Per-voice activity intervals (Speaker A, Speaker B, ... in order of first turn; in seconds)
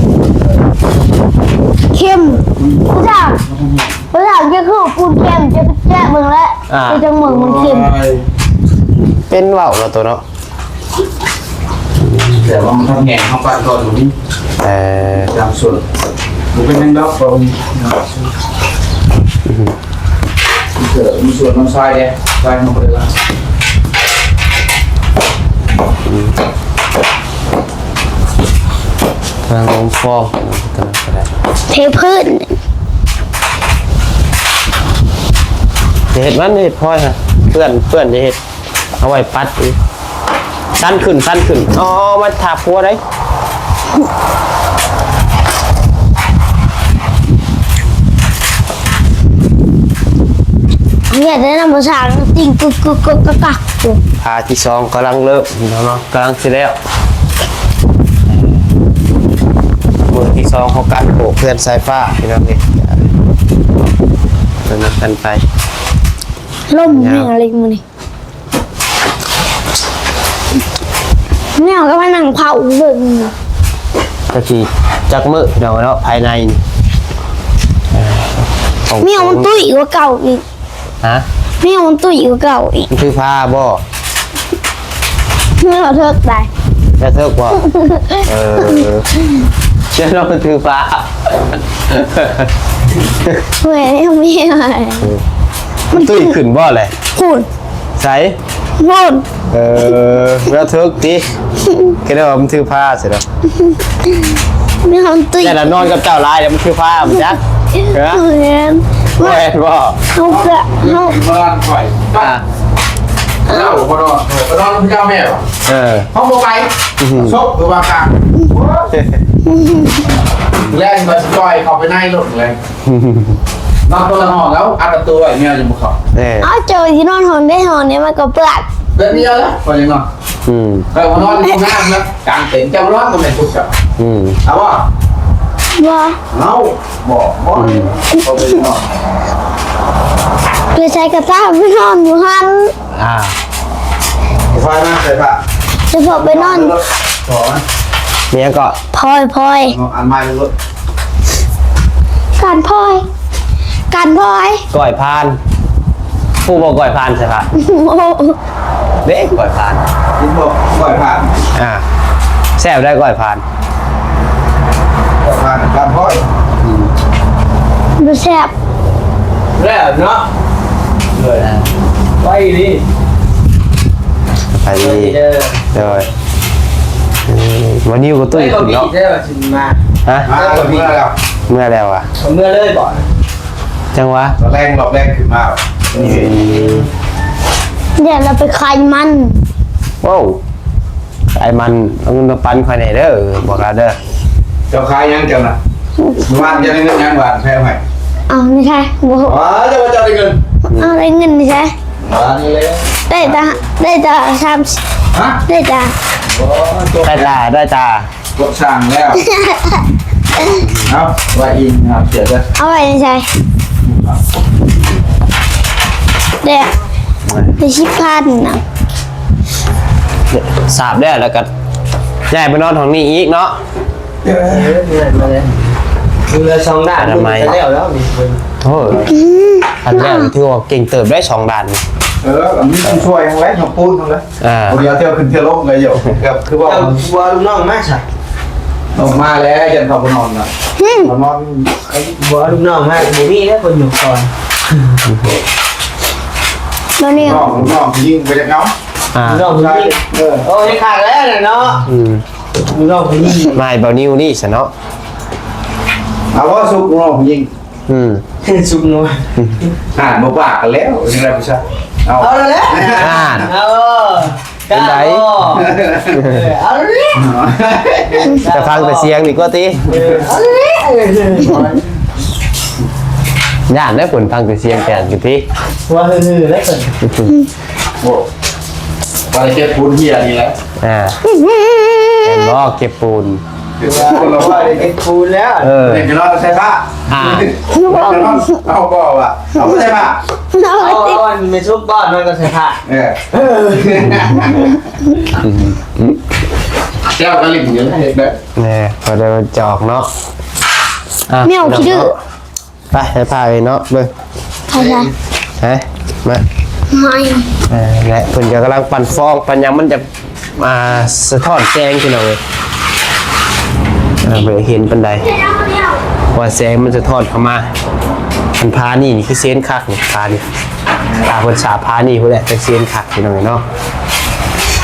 Speaker A: 1.9-3.4, 4.1-7.9, 31.7-32.6, 51.1-54.0, 66.7-67.8, 71.6-73.3, 79.0-80.4, 81.6-82.9, 85.6-86.5, 87.6-88.9, 93.6-95.1, 95.9-96.3, 97.2-97.5, 98.8-99.3, 101.7-102.0, 103.6-104.3, 104.8-105.9, 107.2-109.4, 110.1-111.2, 113.5-113.8, 119.5-120.1, 126.4-128.7, 135.8-136.2, 140.7-142.7, 145.9-146.8, 148.9-149.8, 152.4-153.1, 153.9-154.7, 157.5-158.4, 168.0-168.5, 188.0-189.4, 196.0-196.7, 198.3-199.4, 200.7-201.7, 203.1-204.8, 205.5-205.9, 209.2-210.7, 212.6-213.3, 216.4-216.7, 217.6-218.6, 229.1-230.3, 240.8-241.1, 247.0-247.6, 281.2-282.5, 287.7-288.7, 290.5-291.2, 301.4-302.1, 304.7-305.1, 306.9-307.5
Speaker B: 2.3-4.0, 7.2-8.3, 12.4-14.1, 15.2-15.8, 16.5-18.2, 20.8-23.1, 110.2-112.3, 113.5-115.4, 116.1-118.9, 120.7-122.6, 123.9-126.0, 128.9-130.1, 130.9-133.7, 134.4-134.9, 136.3-138.8, 144.5-145.4, 146.2-147.6, 149.7-150.5, 160.2-161.4, 165.2-166.3, 171.2-171.4, 180.3-181.2, 184.4-186.3, 194.7-195.6, 196.2-197.8, 199.2-200.4, 202.0-203.6, 205.1-205.4, 206.3-207.4, 208.4-209.2, 210.9-212.5, 213.8-214.2, 224.2-224.7, 232.2-236.9, 238.9-241.7, 247.2-248.7, 249.5-250.5, 256.3-257.5, 260.0-263.2, 265.5-266.1, 267.1-268.3, 278.0-278.3, 279.3-280.6, 283.8-284.9, 285.8-290.2, 292.9-294.8, 297.1-298.4
Speaker C: 6.7-7.0, 8.9-10.2, 12.0-12.5, 14.6-15.3, 19.4-19.7, 26.1-26.4, 29.5-31.3, 36.1-38.4, 39.0-39.8, 40.8-43.0, 54.2-56.8, 58.3-58.7, 60.1-63.1, 64.7-65.4, 66.9-67.3, 74.3-76.6, 77.9-79.5, 82.9-83.8, 87.0-87.7, 88.2-89.1, 89.9-92.5, 95.9-96.9, 98.0-98.4, 99.5-101.3, 102.0-103.2, 105.4-108.2, 109.2-110.0, 112.2-112.4, 115.7-116.1, 117.0-117.4, 118.9-119.2, 122.8-123.4, 126.1-126.5, 130.4-130.9, 134.0-134.4, 137.6-137.9, 142.9-143.4, 148.3-148.8, 154.7-155.4, 156.4-157.5, 159.1-159.8, 161.6-161.8, 162.6-163.4, 166.6-166.9, 171.4-171.7, 174.5-175.2, 175.7-176.1, 177.3-178.9, 180.1-180.3, 181.5-182.1, 183.9-184.4, 186.0-186.9, 190.0-190.4, 191.3-194.0, 200.7-200.9, 207.0-208.1, 210.6-210.9, 217.3-217.6, 220.3-221.5, 222.3-223.6, 227.0-227.6, 228.6-229.1, 229.8-231.8, 234.4-234.8, 245.1-245.4, 247.2-247.7, 249.1-249.5, 251.9-252.2, 253.5-254.7, 257.9-258.2, 262.9-263.5, 264.7-265.3, 266.1-266.4, 268.5-269.9, 273.7-275.5, 277.0-277.4, 280.8-281.2, 282.2-283.4, 285.6-286.1, 287.1-287.5, 295.3-296.2, 298.6-300.1, 301.3-302.1, 302.9-304.1, 305.6-306.4, 307.7-312.4, 314.2-315.3, 316.3-317.7, 318.6-320.5, 321.2-323.6
Speaker D: 169.6-170.3, 172.2-172.8, 174.7-176.1, 178.3-181.0, 182.2-183.1, 186.0-186.9, 224.4-225.5, 226.3-228.4, 236.6-238.0, 241.9-244.9, 249.2-251.9, 252.6-253.6, 258.4-259.7, 262.2-267.3, 268.1-269.1, 269.8-271.8, 275.9-277.0, 283.8-285.8, 290.8-292.8